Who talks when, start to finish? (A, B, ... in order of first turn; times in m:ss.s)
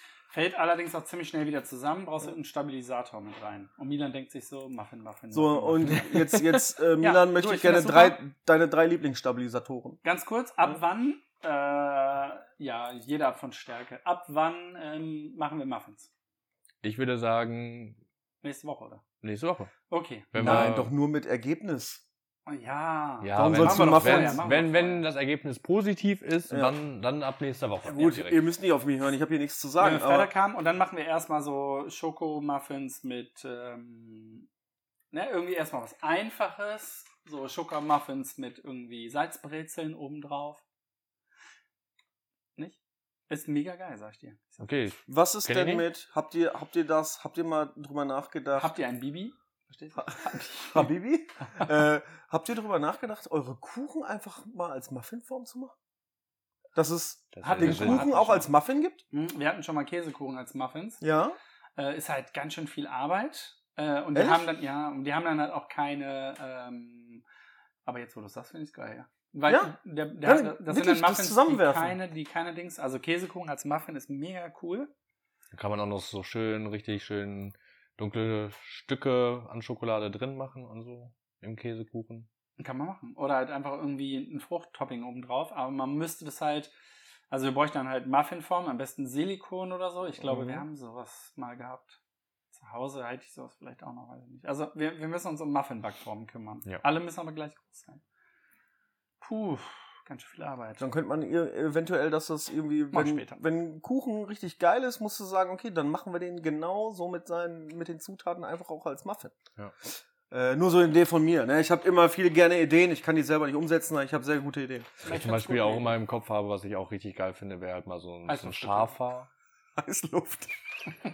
0:00.3-0:06.1 A
0:05.3-0:10.0 B
0:06.1-0:06.5 C
0:07.0-0:08.2 A
0:10.0-0:16.1 A
0:16.8-0:18.0 C
0:18.4-0:19.0 A
0:19.2-0:19.7 C
0:19.9-0:20.7 A
0:20.3-0:20.9 C
0:20.4-0:22.0 B
0:22.5-0:25.0 A
0:23.2-0:28.4 C
0:23.3-0:24.4 B
0:26.5-0:26.8 B
0:27.8-0:30.3 B
0:29.8-0:34.5 A
0:35.1-0:40.6 A
0:42.6-0:44.8 A
0:44.6-0:45.9 C
0:45.1-0:48.7 B
0:48.6-0:50.9 A
0:50.0-0:55.8 B
0:56.8-0:59.0 B
0:57.3-0:58.1 C
0:57.4-0:58.5 A
0:59.1-1:01.0 A
1:01.0-1:01.4 B
1:01.8-1:07.2 A
1:04.1-1:04.5 B
1:07.8-1:14.9 A
1:09.5-1:12.0 B
1:15.5-1:22.3 C
1:22.6-1:26.7 A
1:27.3-1:32.0 A
1:32.5-1:38.0 A
1:39.2-1:40.9 A
1:40.8-1:49.4 B
1:42.9-1:43.4 A
1:50.3-1:55.0 B
1:55.0-1:55.9 A
1:55.1-1:59.3 C
1:58.3-1:59.0 A
1:59.8-2:00.5 B